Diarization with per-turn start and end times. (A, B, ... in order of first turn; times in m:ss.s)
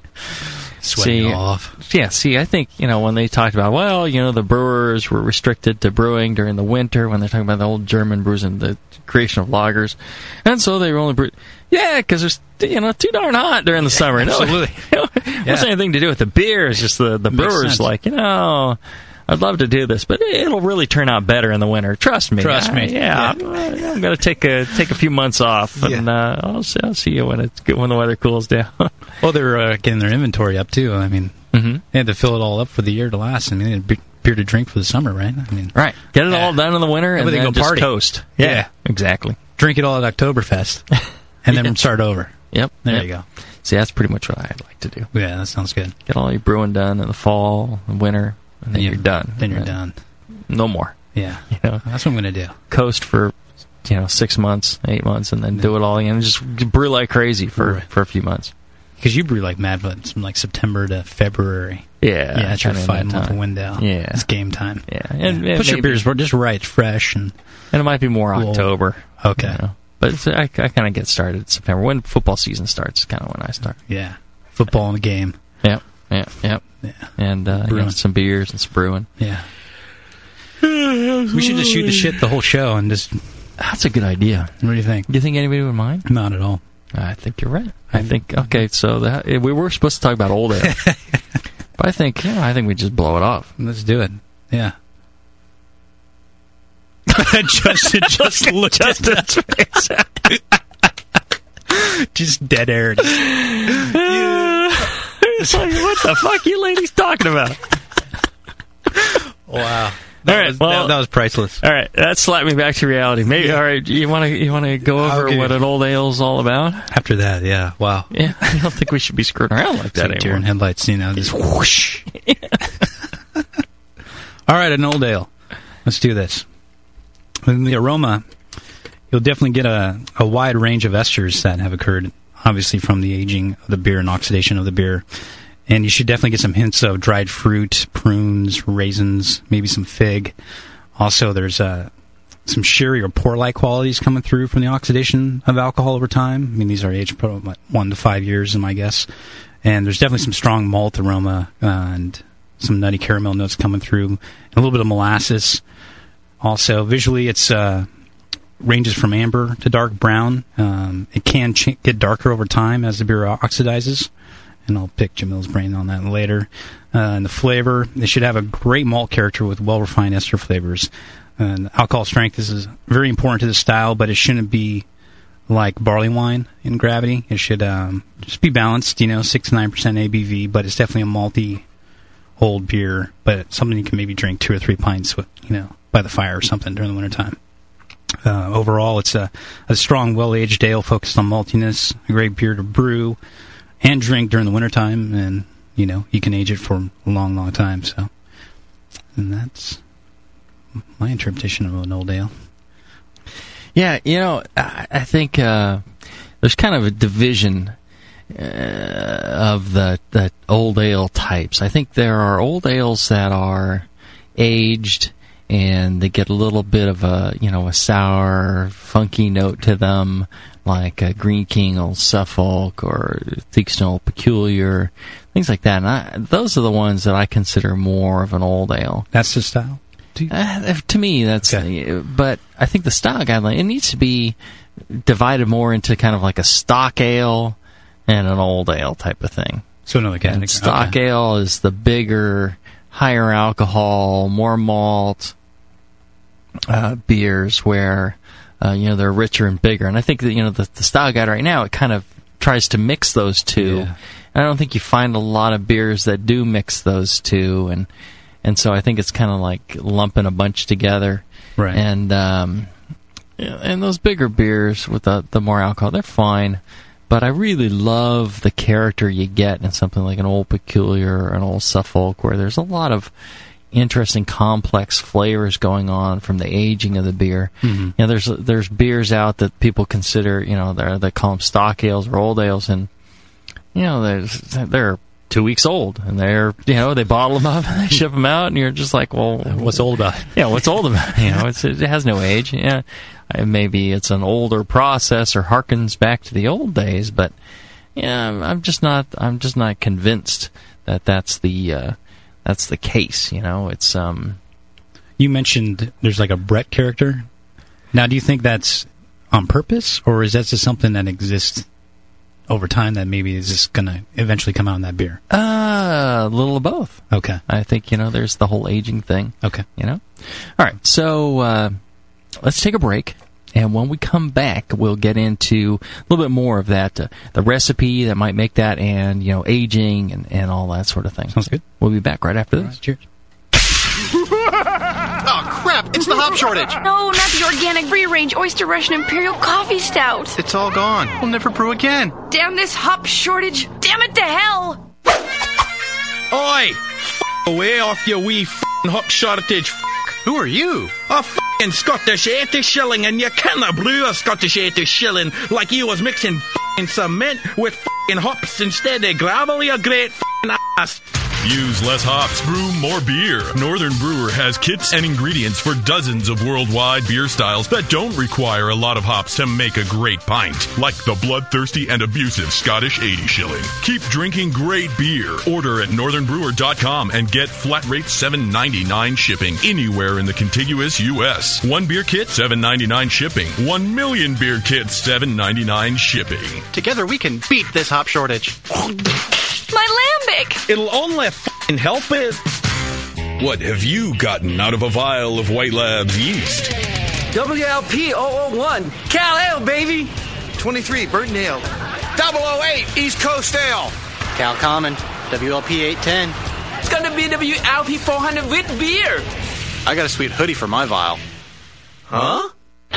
0:00.4-0:01.8 A
0:01.0-0:28.9 B
0:13.9-0:14.9 A
0:15.4-0:15.7 A
0:17.3-0:17.9 A
0:22.4-0:24.0 A
0:25.8-0:26.1 A
0:29.2-0:35.7 A
0:31.5-0:31.8 B
0:35.8-0:39.4 B
0:36.3-0:36.6 A
0:37.1-0:38.7 A
0:39.6-0:40.8 A
0:41.4-0:43.2 A
0:42.5-0:43.1 B
0:43.6-0:45.1 B
0:45.1-0:45.9 A
0:46.1-0:49.8 B
0:48.7-0:50.0 A
0:50.5-0:51.0 B
0:51.2-0:52.6 A
0:51.5-0:51.8 B
0:52.7-0:58.5 B
0:57.6-0:57.8 A
0:59.0-1:07.4 A
1:02.0-1:04.3 B
1:04.9-1:06.1 B
1:07.7-1:13.8 B
1:08.3-1:09.6 A
1:13.9-1:15.4 A
1:15.6-1:16.6 B
1:17.2-1:19.1 B
1:17.5-1:18.0 A
1:19.2-1:19.5 A
1:20.6-1:22.2 B
1:21.3-1:23.2 A
1:23.6-1:24.6 B
1:24.6-1:25.1 A
1:25.1-1:26.1 B
1:26.1-1:26.6 A
1:27.0-1:30.9 B
1:27.9-1:28.6 A
1:30.6-1:31.0 A
1:31.8-1:33.5 B
1:33.6-1:34.8 A
1:37.1-1:39.6 A
1:37.1-1:40.3 B
1:41.7-1:44.8 A
1:43.2-1:47.6 B
1:45.4-1:45.9 A
1:49.5-1:51.6 A
1:50.3-1:51.0 B
1:51.6-1:56.9 B
1:54.8-1:55.6 A
1:56.9-1:58.1 A
1:58.1-2:00.5 B
1:59.9-2:02.1 A
2:04.5-2:05.3 A
2:05.8-2:06.5 A
2:07.4-2:08.2 A
2:09.1-2:15.1 A
2:15.7-2:20.4 A
2:21.0-2:21.9 A
2:22.5-2:29.1 A
2:29.6-2:35.6 A
2:36.4-2:37.9 A
2:38.6-2:44.1 A
2:44.7-2:54.9 A
2:55.5-3:01.6 A
3:02.4-3:07.4 A
3:08.2-3:13.2 A
3:13.8-3:18.1 A
3:19.2-3:19.8 A
3:21.0-3:22.3 A
3:23.8-3:25.8 B
3:26.4-3:27.8 B
3:28.3-3:33.9 B
3:34.4-3:49.1 B
3:49.1-3:50.3 A
3:50.3-3:54.4 B
3:54.9-3:59.7 B
3:59.9-4:01.0 A
4:00.2-4:05.3 B
4:06.7-4:17.9 B
4:13.6-4:14.0 A
4:18.4-4:22.7 B
4:23.4-4:33.1 B
4:33.7-4:42.9 B
4:37.6-4:38.0 A
4:43.7-4:57.3 B
4:49.5-4:50.6 A
4:58.0-5:04.4 B
5:05.2-5:07.3 A
5:07.9-5:11.7 A
5:12.5-5:15.2 A
5:15.3-5:21.8 B
5:17.1-5:17.4 A
5:22.4-5:32.8 B
5:31.3-5:31.6 A
5:32.6-5:33.0 A
5:35.2-5:36.8 C
5:36.8-5:40.4 D
5:40.4-5:42.2 C
5:42.3-5:44.8 D
5:46.3-5:49.9 E
5:50.2-5:51.0 C
5:51.1-6:01.0 E
6:01.4-6:26.7 F
6:26.7-6:28.7 C
6:29.7-6:30.7 D
6:30.7-6:32.3 F
6:30.8-6:32.4 E
6:33.4-6:36.7 F
6:37.3-6:40.1 G
6:40.6-6:46.4 C
6:46.8-6:49.3 G
6:49.8-6:51.2 C
6:52.1-6:52.4 C